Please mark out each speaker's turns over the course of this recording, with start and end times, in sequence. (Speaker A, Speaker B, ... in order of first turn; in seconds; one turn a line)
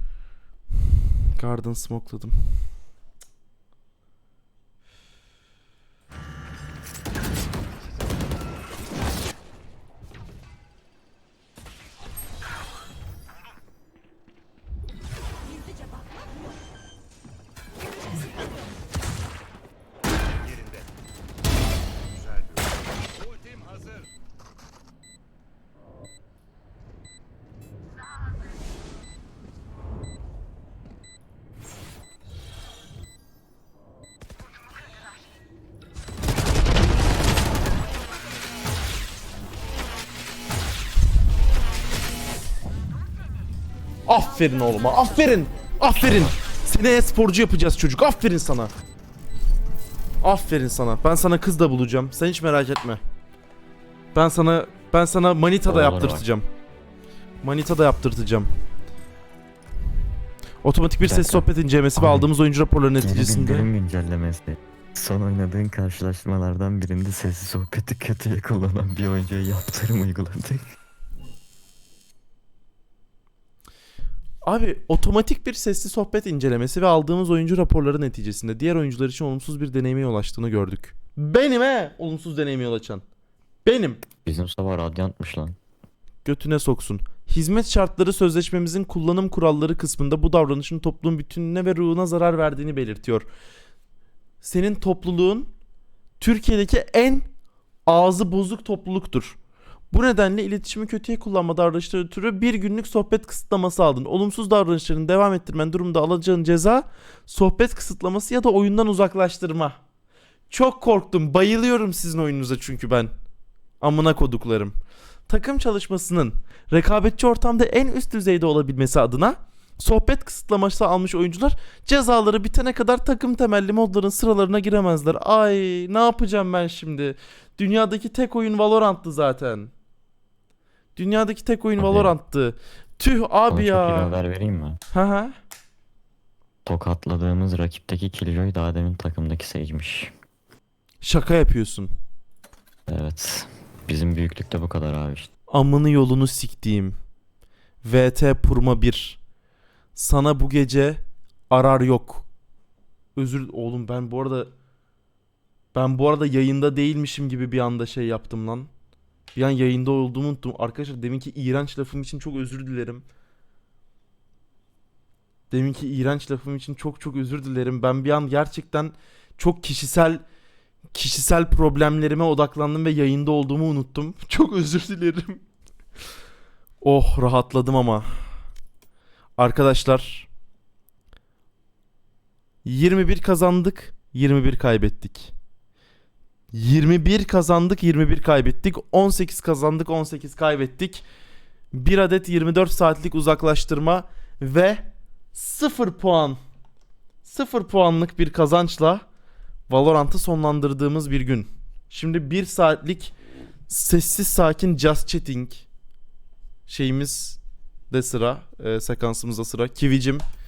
Speaker A: 1.3-2.4
Speaker A: 44.0-48.7
Speaker B: 46.0-46.3
Speaker A: 50.2-53.0
Speaker A: 54.1-56.5
Speaker B: 55.6-56.3
Speaker A: 57.4-58.5
Speaker A: 60.6-63.7
Speaker B: 61.0-62.3
Speaker B: 63.0-70.6
Speaker A: 74.4-83.0
Speaker A: 83.6-84.0
Speaker B: 84.2-85.6
Speaker A: 86.2-93.3
Speaker A: 94.4-95.5
Speaker A: 96.2-97.2
Speaker A: 97.9-99.4
Speaker A: 99.9-109.8
Speaker A: 110.5-113.1
Speaker A: 113.8-114.7
Speaker A: 115.3-129.7
Speaker A: 130.9-134.1
Speaker B: 131.8-132.1
Speaker B: 133.5-134.8
Speaker A: 134.9-135.3
Speaker B: 136.6-140.1
Speaker A: 141.0-141.9
Speaker B: 142.9-145.3
Speaker A: 145.5-146.9
Speaker A: 147.8-149.2
Speaker A: 149.9-152.2
Speaker A: 153.2-154.5
Speaker A: 155.7-158.7
Speaker A: 159.3-163.0
Speaker A: 165.5-170.2
Speaker A: 170.9-175.4
Speaker A: 176.8-178.2
Speaker A: 179.4-180.3
Speaker A: 182.6-185.3
Speaker A: 186.5-191.0
Speaker A: 191.7-196.4
Speaker A: 197.2-199.0
Speaker A: 199.7-203.1
Speaker A: 203.7-205.7
Speaker A: 206.7-207.4
Speaker A: 207.9-210.2